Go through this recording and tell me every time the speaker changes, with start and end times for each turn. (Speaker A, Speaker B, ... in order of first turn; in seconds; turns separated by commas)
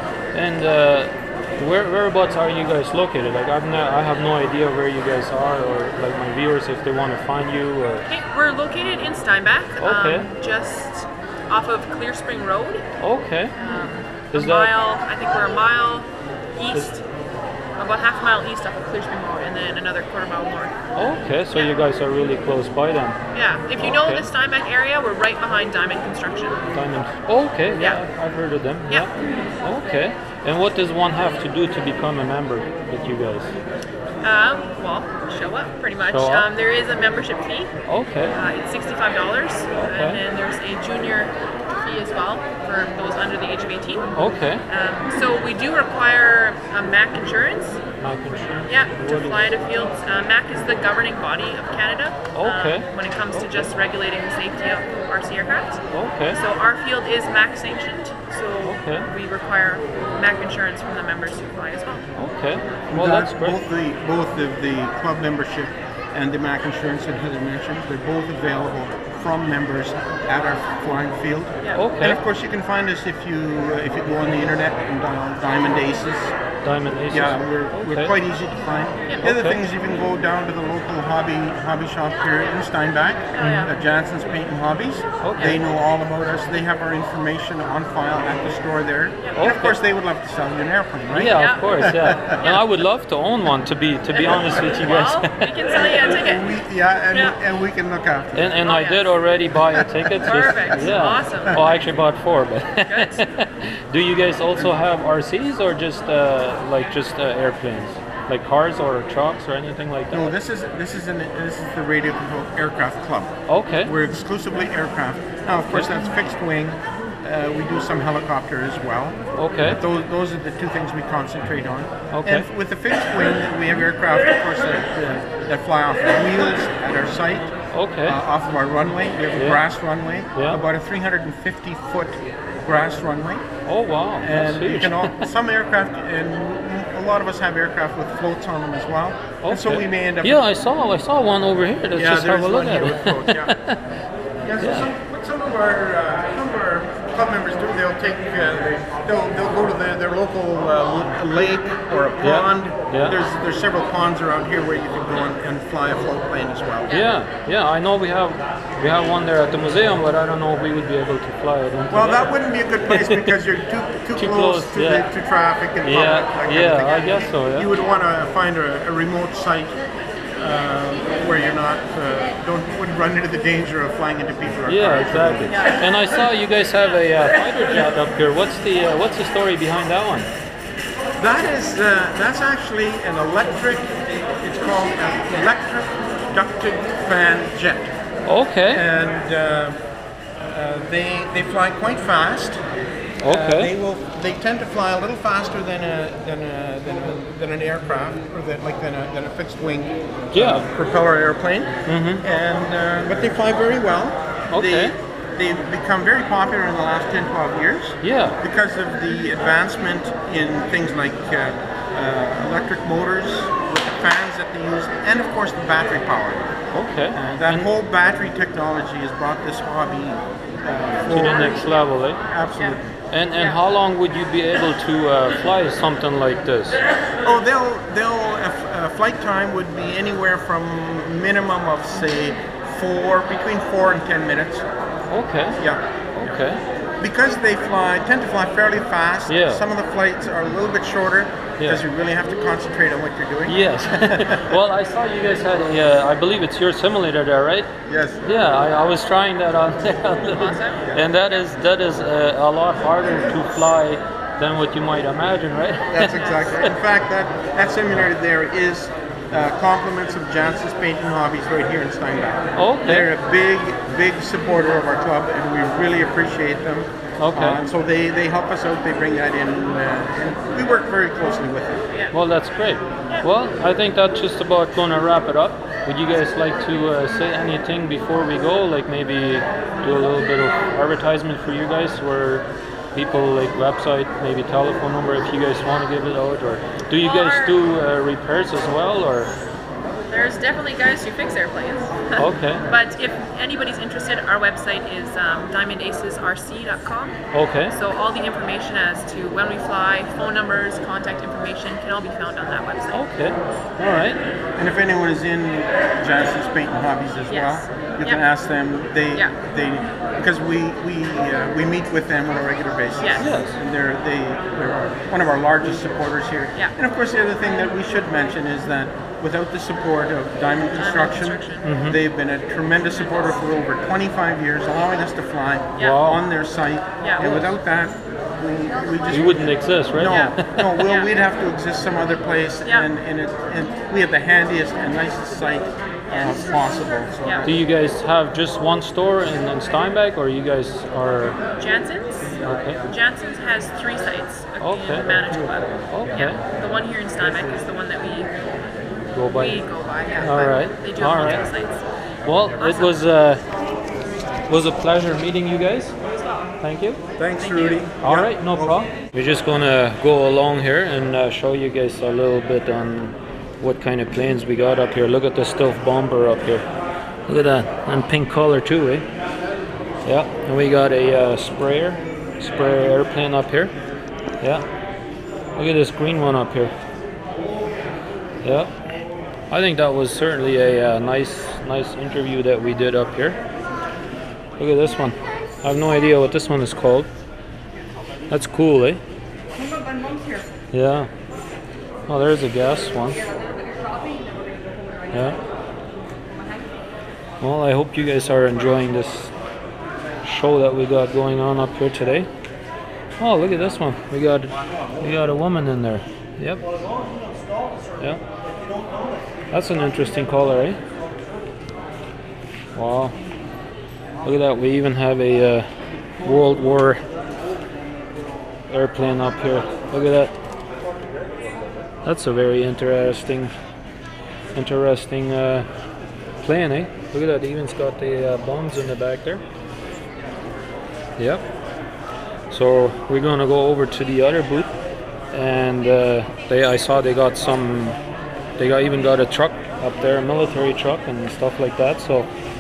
Speaker A: 0.3-8.0, Speaker B: 8.1-12.8, Speaker A: 9.8-10.3, Speaker A: 13.0-13.5, Speaker B: 13.6-17.1, Speaker A: 14.3-14.7, Speaker B: 17.8-20.7, Speaker A: 20.9-23.2, Speaker B: 21.5-21.8, Speaker B: 23.3-26.6, Speaker A: 23.8-24.3, Speaker A: 26.7-33.5, Speaker B: 27.8-28.0, Speaker B: 34.2-44.2, Speaker A: 36.0-36.5, Speaker A: 37.9-38.4, Speaker A: 39.8-40.2, Speaker A: 44.1-44.6, Speaker B: 44.7-47.8, Speaker A: 48.0-49.5, Speaker B: 48.7-62.1, Speaker A: 52.3-52.9, Speaker A: 55.9-56.4, Speaker A: 58.6-59.1, Speaker A: 62.2-63.6, Speaker C: 62.9-76.3, Speaker A: 71.8-72.2, Speaker A: 76.6-78.1, Speaker C: 77.1-92.3, Speaker A: 79.2-79.6, Speaker B: 83.3-83.7, Speaker A: 83.4-83.7, Speaker A: 85.2-85.6, Speaker A: 89.4-89.8, Speaker A: 91.1-95.9, Speaker B: 91.3-92.6, Speaker B: 94.1-96.6, Speaker C: 94.3-94.6, Speaker C: 95.9-98.6, Speaker B: 97.1-97.4, Speaker A: 98.3-110.3, Speaker B: 98.6-99.1, Speaker C: 99.8-100.0, Speaker B: 100.2-101.8, Speaker B: 102.9-103.2, Speaker C: 110.1-133.5, Speaker A: 113.5-113.9, Speaker A: 119.3-119.8, Speaker A: 122.1-122.5, Speaker A: 127.7-128.2, Speaker A: 129.3-129.6, Speaker A: 130.3-130.6, Speaker A: 133.7-135.3, Speaker C: 134.2-140.4, Speaker A: 139.4-143.8, Speaker C: 141.9-143.6, Speaker C: 144.4-156.9, Speaker A: 144.6-144.9, Speaker A: 152.2-153.2, Speaker B: 156.9-157.1, Speaker A: 156.9-162.3, Speaker C: 161.9-169.8, Speaker A: 162.9-163.3, Speaker A: 164.2-165.1, Speaker A: 165.8-167.7, Speaker C: 170.4-175.7, Speaker A: 174.7-180.3, Speaker B: 175.5-175.9, Speaker C: 181.2-187.9, Speaker A: 188.2-188.8, Speaker C: 188.7-189.8, Speaker C: 190.5-192.6, Speaker A: 193.2-193.7, Speaker C: 193.2-216.6, Speaker A: 200.3-200.7, Speaker A: 201.9-202.2, Speaker A: 204.5-204.9, Speaker A: 208.0-208.4, Speaker A: 216.7-217.7, Speaker C: 217.1-221.7, Speaker A: 221.1-222.2, Speaker C: 222.3-222.9, Speaker A: 223.1-226.8, Speaker C: 227.2-234.7, Speaker A: 235.1-235.6, Speaker C: 235.6-236.3, Speaker A: 236.2-236.6, Speaker C: 237.0-244.6, Speaker A: 239.3-239.6, Speaker A: 243.5-247.7, Speaker C: 247.8-248.2, Speaker A: 248.2-256.2, Speaker B: 250.3-251.0, Speaker C: 255.9-271.8, Speaker B: 256.1-256.6, Speaker A: 262.6-263.1, Speaker A: 267.2-267.6, Speaker A: 272.1-289.3, Speaker B: 287.0-287.6, Speaker B: 290.1-297.2, Speaker A: 292.2-292.6, Speaker A: 297.3-297.8, Speaker B: 297.7-303.0, Speaker A: 302.9-304.2, Speaker C: 304.6-337.6, Speaker B: 307.3-308.2, Speaker B: 313.0-313.3, Speaker A: 313.2-313.6, Speaker B: 320.8-321.7, Speaker A: 321.6-322.0, Speaker B: 323.0-323.3, Speaker B: 325.8-326.0, Speaker A: 325.8-326.2, Speaker B: 327.0-327.4, Speaker A: 327.2-327.5, Speaker A: 329.1-330.8, Speaker B: 330.0-331.1, Speaker A: 337.4-341.4, Speaker B: 341.6-348.3, Speaker A: 342.4-342.8, Speaker A: 344.6-345.4, Speaker A: 345.9-346.4, Speaker A: 349.1-349.6, Speaker B: 349.3-351.8, Speaker A: 350.2-351.5, Speaker A: 352.2-353.4, Speaker B: 352.6-353.0, Speaker A: 354.5-356.0, Speaker B: 356.1-356.5, Speaker A: 356.6-357.0, Speaker C: 357.2-358.8, Speaker B: 357.4-357.9, Speaker A: 358.0-366.6, Speaker A: 367.3-369.1, Speaker A: 370.1-373.7, Speaker A: 375.6-376.7, Speaker A: 378.4-378.7, Speaker A: 379.5-383.4, Speaker A: 384.6-387.1, Speaker A: 388.3-389.0, Speaker A: 390.7-391.1, Speaker A: 392.1-393.2, Speaker A: 395.1-395.4, Speaker A: 397.4-399.3, Speaker A: 400.2-402.3, Speaker A: 403.2-406.6, Speaker A: 409.5-410.8, Speaker A: 412.8-413.2, Speaker A: 414.2-415.7, Speaker A: 416.2-417.0, Speaker A: 418.7-420.3, Speaker A: 422.0-423.5, Speaker A: 424.6-425.7, Speaker A: 426.4-429.4, Speaker A: 431.2-431.4, Speaker A: 432.5-434.8, Speaker A: 435.3-438.0, Speaker A: 438.6-442.3